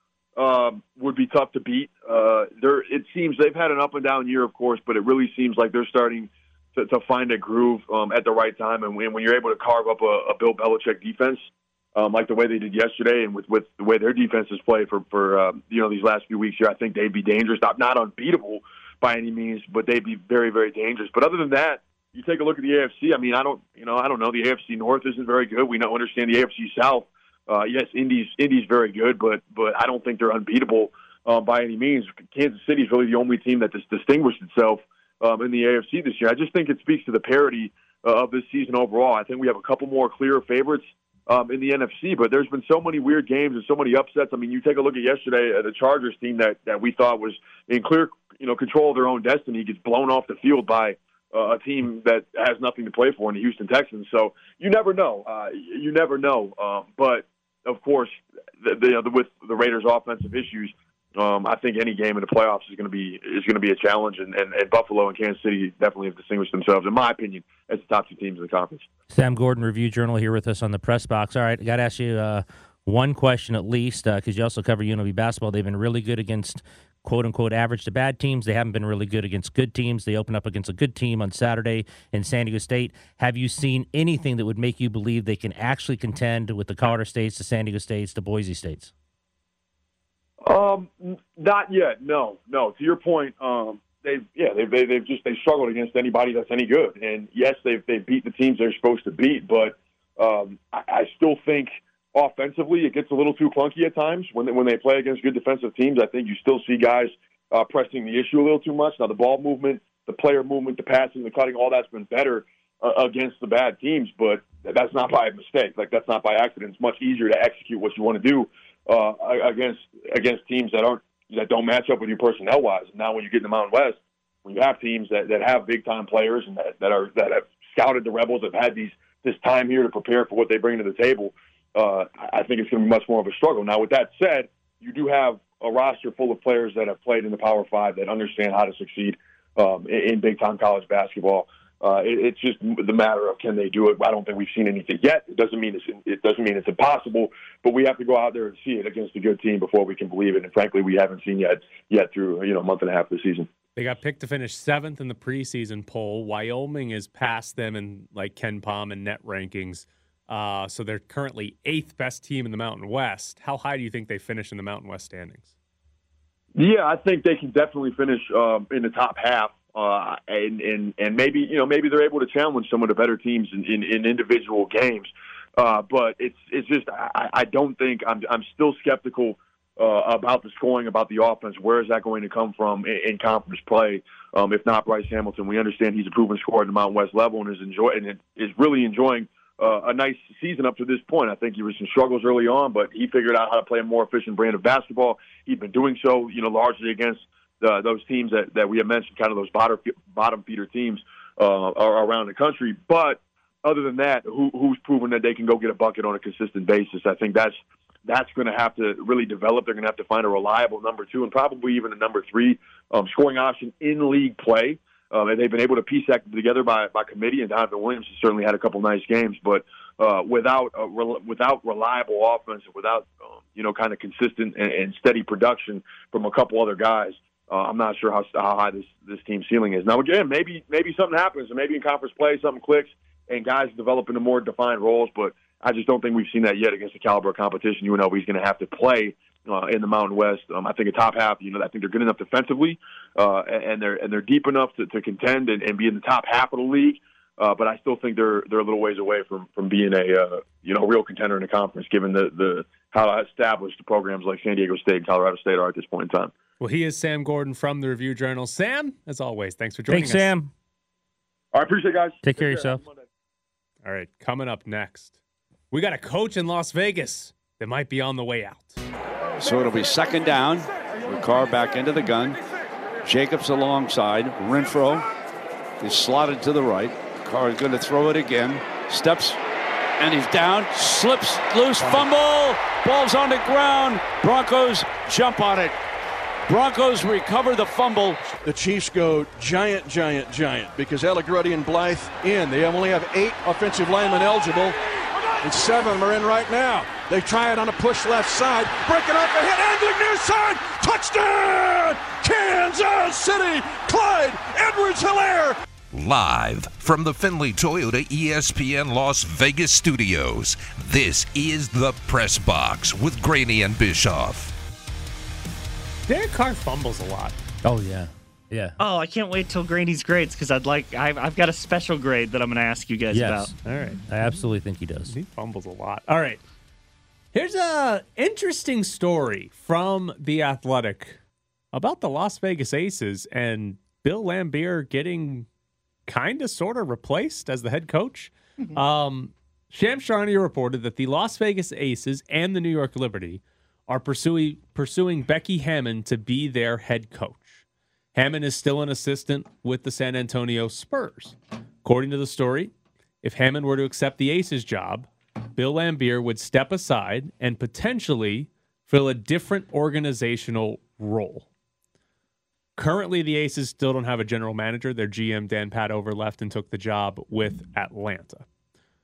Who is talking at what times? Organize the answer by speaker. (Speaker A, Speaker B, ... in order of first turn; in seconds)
Speaker A: 0.4-68.9, 90.4-153.5, 166.6-256.3, 261.5-263.0
Speaker B: 69.1-88.9, 259.9-260.5, 262.2-262.8, 317.6-318.8, 323.1-323.5, 324.1-325.1
Speaker C: 153.8-165.5, 256.6-260.3, 263.8-265.1, 265.7-268.8, 316.1-317.4, 323.6-324.0, 325.1-326.4, 327.3-331.2, 331.7-335.5, 336.1-347.6, 348.1-361.5, 362.8-368.4
Speaker D: 269.4-272.4, 273.0-275.1, 275.8-279.4, 280.0-285.7, 286.5-288.1
Speaker E: 281.8-282.1, 287.0-294.8, 295.4-305.6
Speaker F: 305.9-314.5
Speaker G: 318.8-323.5